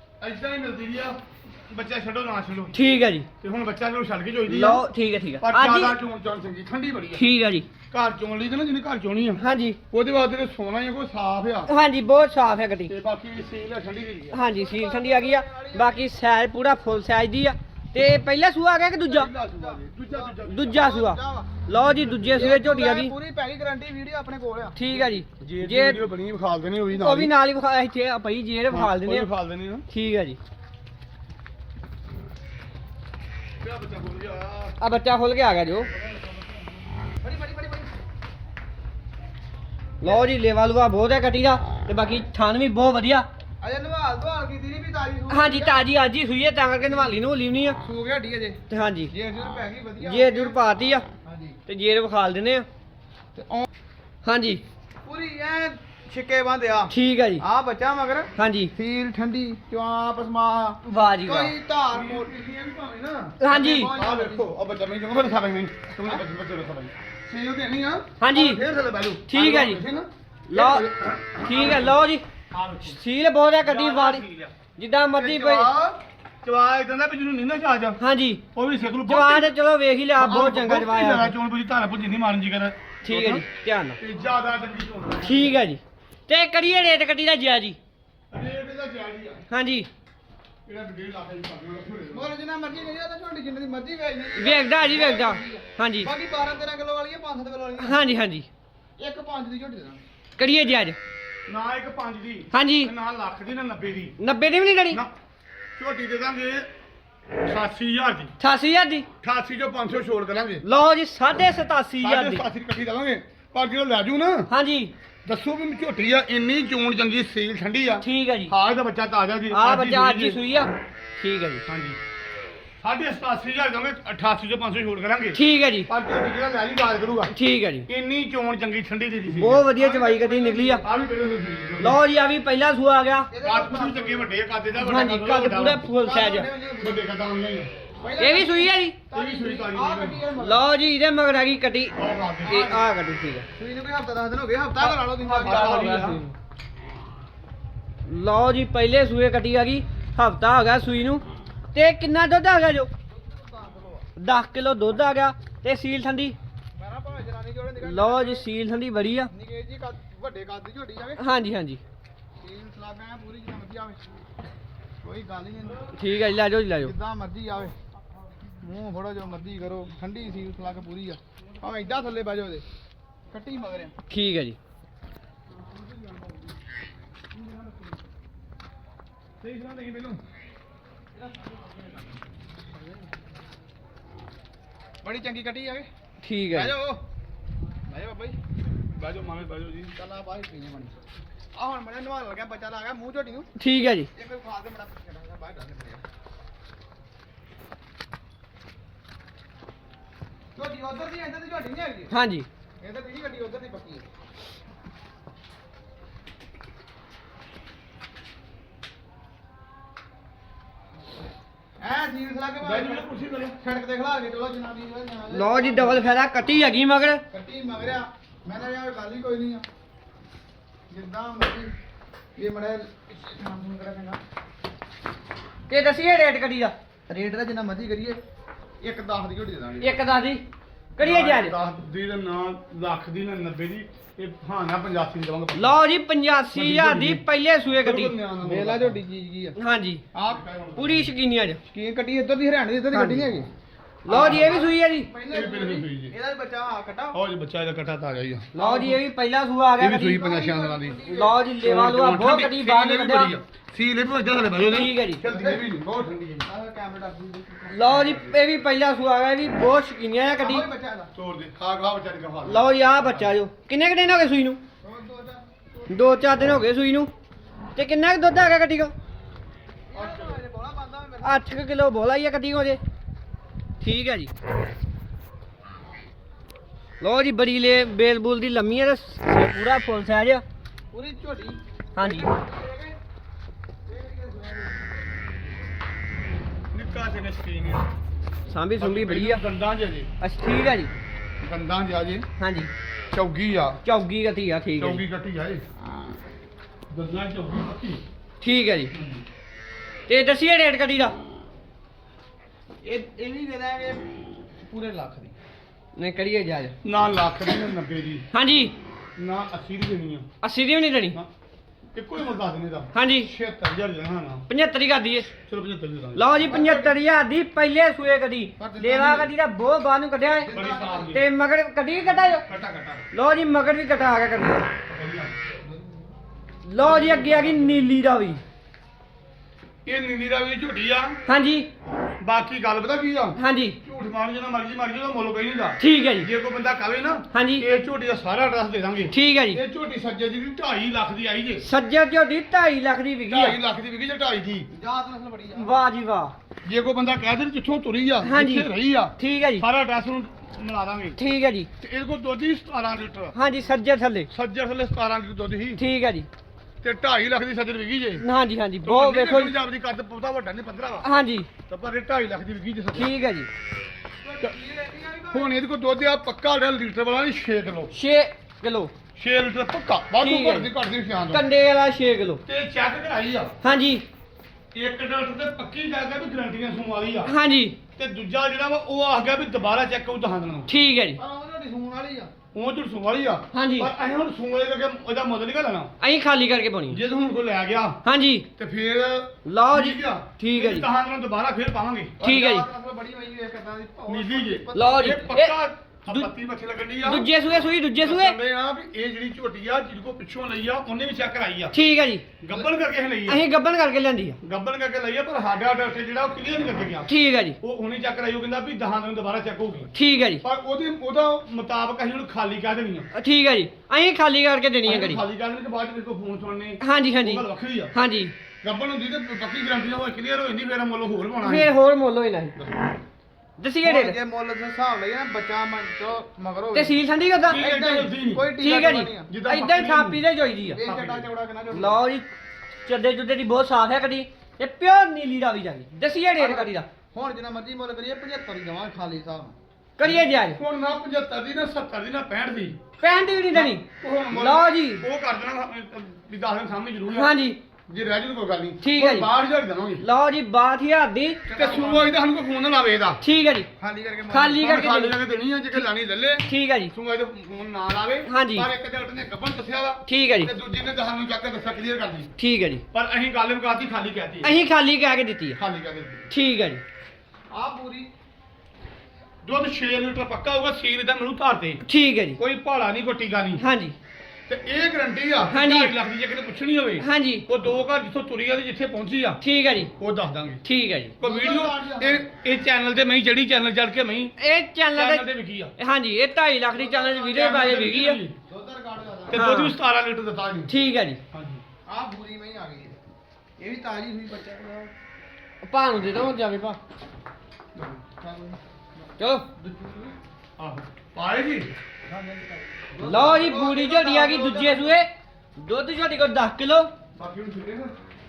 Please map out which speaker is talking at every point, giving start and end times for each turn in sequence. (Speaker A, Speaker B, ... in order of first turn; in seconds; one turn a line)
Speaker A: 0.2-2.8
Speaker B: 2.7-3.3
Speaker A: 3.4-4.8
Speaker B: 4.5-6.0
Speaker A: 5.4-7.2
Speaker B: 7.1-7.7
Speaker A: 7.9-11.7
Speaker B: 9.4-9.8
Speaker B: 11.7-12.9
Speaker A: 12.9-14.4
Speaker B: 14.3-19.3
Speaker C: 14.4-16.0
Speaker A: 19.0-20.9
Speaker C: 19.3-21.7
Speaker B: 20.5-23.1
Speaker A: 21.8-22.4
Speaker C: 22.3-25.1
Speaker B: 24.8-26.0
Speaker A: 25.4-27.3
Speaker B: 26.9-29.3
Speaker A: 28.7-29.9
Speaker B: 29.9-30.4
Speaker A: 33.6-34.8
Speaker B: 34.8-35.9
Speaker C: 37.2-37.9
Speaker B: 40.0-43.3
Speaker C: 43.6-45.8
Speaker B: 45.3-47.8
Speaker C: 47.8-50.6
Speaker B: 48.7-49.1
Speaker B: 50.0-51.1
Speaker C: 51.2-51.6
Speaker B: 51.7-52.7
Speaker C: 53.4-53.7
Speaker B: 54.2-54.6
Speaker C: 55.0-62.4
Speaker B: 56.9-57.4
Speaker B: 58.4-58.7
Speaker B: 60.8-61.5
Speaker A: 61.9-73.0
Speaker B: 63.4-63.9
Speaker C: 63.5-64.5
Speaker B: 68.2-68.6
Speaker B: 69.3-69.8
Speaker B: 70.5-70.9
Speaker B: 71.5-72.2
Speaker B: 72.8-74.2
Speaker A: 73.6-74.5
Speaker B: 74.8-75.7
Speaker A: 75.2-78.0
Speaker B: 78.0-78.4
Speaker A: 78.5-79.5
Speaker B: 79.1-81.3
Speaker A: 80.2-83.5
Speaker B: 83.0-84.0
Speaker A: 84.0-85.6
Speaker B: 85.2-87.8
Speaker A: 88.3-89.4
Speaker B: 89.5-89.9
Speaker A: 90.7-92.3
Speaker C: 92.1-98.0
Speaker B: 94.4-96.1
Speaker B: 97.8-98.5
Speaker C: 99.0-100.0
Speaker B: 100.4-101.0
Speaker A: 101.5-104.2
Speaker B: 102.5-102.9
Speaker B: 104.2-105.0
Speaker A: 105.8-106.7
Speaker A: 107.4-108.3
Speaker B: 108.4-109.1
Speaker A: 109.2-110.7
Speaker B: 110.6-112.5
Speaker A: 112.0-114.5
Speaker B: 114.5-114.9
Speaker A: 115.2-120.4
Speaker B: 118.0-118.5
Speaker B: 119.5-121.6
Speaker A: 121.7-122.0
Speaker A: 122.8-127.3
Speaker B: 125.3-125.9
Speaker B: 127.3-127.9
Speaker A: 127.9-132.0
Speaker B: 129.3-130.8
Speaker B: 131.8-133.3
Speaker C: 133.3-134.3
Speaker A: 133.4-135.8
Speaker B: 134.8-136.5
Speaker C: 136.0-137.0
Speaker A: 136.8-137.7
Speaker C: 138.0-140.7
Speaker B: 138.2-139.0
Speaker A: 139.1-140.2
Speaker B: 140.4-143.5
Speaker A: 142.0-142.8
Speaker C: 142.4-142.8
Speaker C: 143.6-146.2
Speaker A: 144.8-146.2
Speaker B: 145.4-146.3
Speaker B: 148.1-152.9
Speaker C: 153.1-154.1
Speaker B: 154.2-156.4
Speaker C: 156.8-158.4
Speaker B: 157.8-159.3
Speaker C: 159.3-161.2
Speaker B: 161.2-161.8
Speaker C: 162.4-164.0
Speaker C: 165.0-165.9
Speaker B: 166.0-166.9
Speaker C: 166.8-167.8
Speaker C: 168.6-172.7
Speaker C: 173.3-173.9
Speaker B: 174.1-174.6
Speaker A: 179.4-180.2
Speaker C: 185.0-185.9
Speaker B: 186.2-186.7
Speaker C: 186.5-187.0
Speaker C: 187.9-188.4
Speaker A: 188.9-189.9
Speaker C: 190.0-190.9
Speaker C: 191.5-193.5
Speaker B: 193.6-194.1
Speaker C: 194.1-196.0
Speaker C: 200.6-202.1
Speaker B: 202.1-202.5
Speaker C: 202.8-204.1
Speaker C: 211.8-213.1
Speaker A: 212.6-213.6
Speaker C: 213.6-216.1
Speaker B: 215.3-217.2
Speaker C: 217.3-219.7
Speaker C: 220.9-221.7
Speaker C: 222.4-224.2
Speaker B: 225.7-226.8
Speaker C: 227.1-228.2
Speaker C: 228.8-229.9
Speaker B: 229.8-230.4
Speaker B: 231.0-231.6
Speaker A: 231.0-235.8
Speaker B: 235.6-238.2
Speaker A: 236.5-237.2
Speaker A: 237.8-239.0
Speaker C: 238.4-239.6
Speaker B: 239.6-240.0
Speaker C: 240.1-240.4
Speaker A: 240.3-241.1
Speaker B: 240.8-241.6
Speaker C: 241.7-243.5
Speaker B: 242.9-243.3
Speaker B: 244.1-245.1
Speaker A: 244.1-244.6
Speaker C: 244.1-247.2
Speaker A: 245.3-246.2
Speaker A: 247.1-248.5
Speaker C: 248.6-249.0
Speaker B: 248.6-250.2
Speaker A: 249.8-251.0
Speaker C: 250.1-251.4
Speaker B: 251.1-253.3
Speaker A: 251.6-256.5
Speaker B: 254.6-255.2
Speaker C: 255.2-255.7
Speaker C: 256.4-258.4
Speaker B: 257.7-260.7
Speaker C: 260.4-261.1
Speaker A: 261.1-263.4
Speaker B: 262.4-264.6
Speaker C: 264.8-265.5
Speaker B: 265.9-267.1
Speaker B: 267.8-268.9
Speaker C: 269.9-271.4
Speaker A: 269.9-270.4
Speaker B: 271.2-272.8
Speaker B: 273.8-274.3
Speaker B: 277.0-280.4
Speaker C: 280.9-283.0
Speaker B: 282.0-282.3
Speaker C: 283.9-285.0
Speaker A: 286.7-287.9
Speaker B: 288.5-289.4
Speaker A: 288.8-290.1
Speaker B: 290.2-290.9
Speaker A: 291.4-292.3
Speaker B: 292.4-292.7
Speaker A: 293.1-293.8
Speaker B: 293.9-295.0
Speaker A: 294.8-295.6
Speaker A: 296.9-298.0
Speaker B: 298.4-298.9
Speaker A: 298.9-299.2
Speaker B: 300.1-301.2
Speaker C: 302.8-304.1
Speaker C: 304.6-305.3
Speaker B: 306.0-306.8
Speaker A: 306.8-308.3
Speaker B: 308.3-308.7
Speaker A: 309.2-310.3
Speaker B: 310.4-311.2
Speaker A: 311.9-314.5
Speaker B: 312.9-313.3
Speaker B: 314.5-315.3
Speaker A: 315.5-316.8
Speaker B: 316.1-320.5
Speaker C: 316.5-316.9
Speaker C: 318.6-319.3
Speaker C: 320.4-321.2
Speaker A: 320.5-321.2
Speaker B: 321.1-322.4
Speaker A: 322.4-323.0
Speaker B: 323.1-324.7
Speaker A: 324.9-325.4
Speaker C: 325.6-326.1
Speaker B: 326.6-328.4
Speaker A: 326.8-327.9
Speaker A: 329.9-331.2
Speaker B: 331.3-331.7
Speaker A: 332.2-341.6
Speaker B: 333.4-333.8
Speaker B: 335.8-336.3
Speaker B: 337.3-337.7
Speaker B: 339.1-339.6
Speaker B: 341.6-343.6
Speaker A: 343.3-344.7
Speaker C: 344.7-345.7
Speaker B: 345.6-346.3
Speaker A: 346.6-351.2
Speaker B: 348.2-349.6
Speaker B: 351.2-351.7
Speaker A: 351.8-353.4
Speaker B: 353.3-354.3
Speaker A: 354.3-355.8
Speaker B: 355.8-356.3
Speaker A: 356.8-358.2
Speaker B: 358.2-359.5
Speaker A: 358.8-361.1
Speaker B: 361.0-361.5
Speaker A: 361.7-363.1
Speaker B: 362.9-363.5
Speaker C: 364.2-365.5
Speaker A: 365.3-367.9
Speaker B: 367.9-368.9
Speaker A: 369.2-371.4
Speaker B: 370.2-370.7
Speaker B: 371.3-372.4
Speaker A: 372.5-373.5
Speaker B: 373.6-374.1
Speaker A: 374.7-377.3
Speaker B: 377.2-377.8
Speaker A: 378.0-380.7
Speaker B: 380.7-381.2
Speaker C: 381.2-382.3
Speaker A: 382.5-385.9
Speaker B: 383.5-383.9
Speaker B: 386.0-387.0
Speaker A: 386.9-388.0
Speaker B: 388.0-388.5
Speaker A: 388.6-392.2
Speaker B: 389.4-390.9
Speaker C: 392.2-395.3
Speaker B: 392.2-392.7
Speaker A: 394.1-397.3
Speaker B: 394.7-395.6
Speaker B: 397.0-398.4
Speaker A: 398.0-401.8
Speaker B: 401.7-402.2
Speaker A: 402.4-403.4
Speaker C: 402.5-402.8
Speaker B: 403.3-404.4
Speaker A: 404.4-407.1
Speaker B: 407.1-407.6
Speaker A: 407.6-409.9
Speaker B: 409.9-410.4
Speaker A: 410.4-413.1
Speaker B: 413.1-415.2
Speaker A: 414.9-417.9
Speaker B: 416.8-418.3
Speaker A: 418.6-421.7
Speaker B: 421.4-422.6
Speaker A: 422.6-422.9
Speaker B: 423.6-424.2
Speaker C: 423.8-427.0
Speaker B: 426.7-427.6
Speaker A: 427.5-428.5
Speaker C: 427.5-429.3
Speaker B: 428.6-430.8
Speaker A: 429.3-430.2
Speaker C: 430.7-432.0
Speaker A: 430.9-431.3
Speaker B: 431.7-432.2
Speaker B: 432.9-436.9
Speaker C: 436.4-439.6
Speaker B: 440.0-440.6
Speaker A: 440.0-442.8
Speaker B: 443.0-445.0
Speaker A: 443.5-447.3
Speaker B: 447.1-447.6
Speaker A: 447.9-450.1
Speaker B: 448.8-449.3
Speaker B: 450.0-451.6
Speaker A: 451.5-453.2
Speaker C: 451.5-452.1
Speaker B: 453.2-453.7
Speaker C: 453.8-454.7
Speaker B: 454.3-455.2
Speaker A: 454.6-462.3
Speaker B: 456.5-456.9
Speaker B: 458.3-458.7
Speaker B: 460.1-460.5
Speaker B: 462.4-462.8
Speaker A: 462.9-464.5
Speaker B: 464.4-465.6
Speaker A: 465.6-466.3
Speaker B: 466.3-466.8
Speaker C: 467.5-468.1
Speaker A: 469.4-471.8
Speaker B: 471.9-472.4
Speaker A: 472.4-473.6
Speaker B: 473.6-474.0
Speaker A: 474.5-479.4
Speaker B: 475.5-475.9
Speaker B: 477.0-477.4
Speaker B: 479.4-479.9
Speaker A: 480.0-480.6
Speaker B: 480.6-481.2
Speaker C: 481.2-482.3
Speaker A: 481.2-484.3
Speaker B: 484.4-485.2
Speaker A: 484.9-485.7
Speaker B: 485.8-488.2
Speaker C: 486.8-487.2
Speaker A: 487.0-488.4
Speaker C: 488.4-489.5
Speaker A: 489.3-490.7
Speaker B: 489.3-489.8
Speaker B: 490.7-491.2
Speaker A: 491.3-491.6
Speaker C: 491.9-493.0
Speaker C: 493.6-494.9
Speaker B: 495.6-496.8
Speaker A: 497.8-498.0
Speaker C: 498.1-498.6
Speaker B: 499.2-499.4
Speaker C: 499.6-500.1
Speaker A: 500.6-501.7
Speaker C: 502.1-505.0
Speaker B: 503.0-506.9
Speaker A: 507.2-507.9